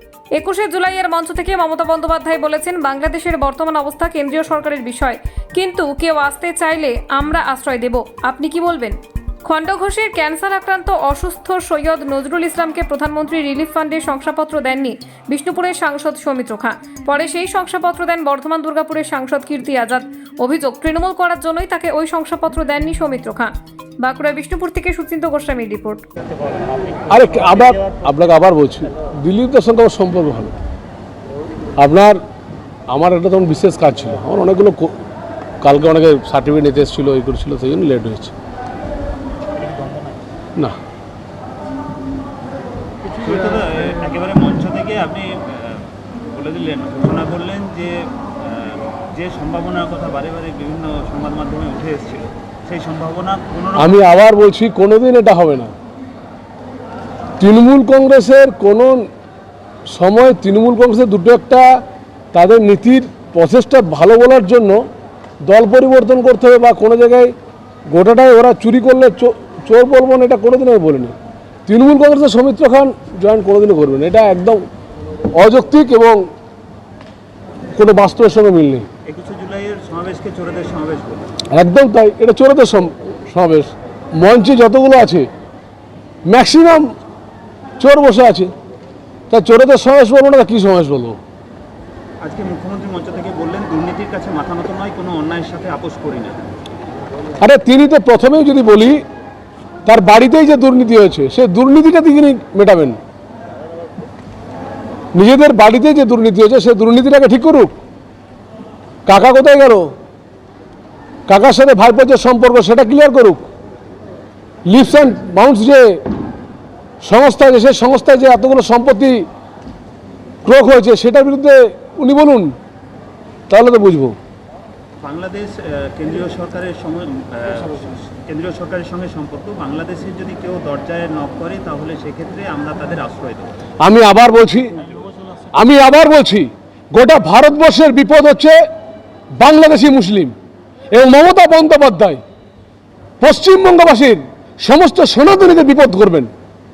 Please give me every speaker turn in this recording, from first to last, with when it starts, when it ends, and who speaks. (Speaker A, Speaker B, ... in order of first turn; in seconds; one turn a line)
Speaker A: 0.3-26.0
Speaker B: 27.1-30.5
Speaker B: 31.8-32.2
Speaker B: 32.9-34.9
Speaker B: 35.6-38.3
Speaker C: 39.6-40.0
Speaker C: 43.1-54.0
Speaker B: 53.8-55.7
Speaker B: 57.4-59.1
Speaker B: 59.9-61.8
Speaker B: 62.3-64.8
Speaker B: 65.4-67.3
Speaker B: 67.9-71.2
Speaker B: 71.7-74.6
Speaker B: 75.3-76.2
Speaker B: 77.7-78.9
Speaker C: 79.1-81.3
Speaker B: 81.5-85.3
Speaker B: 86.3-86.9
Speaker B: 87.8-88.5
Speaker B: 89.3-91.2
Speaker C: 92.2-96.5
Speaker B: 97.4-99.0
Speaker B: 99.9-103.0
Speaker B: 105.1-107.7
Speaker B: 109.1-109.9
Speaker B: 111.3-113.5
Speaker B: 114.7-116.0
Speaker B: 117.0-119.3
Speaker B: 120.5-122.5
Speaker B: 123.5-124.2
Speaker C: 125.0-133.6
Speaker B: 133.8-134.8
Speaker B: 135.5-138.6
Speaker B: 139.4-140.3
Speaker B: 140.9-142.2
Speaker B: 143.2-146.3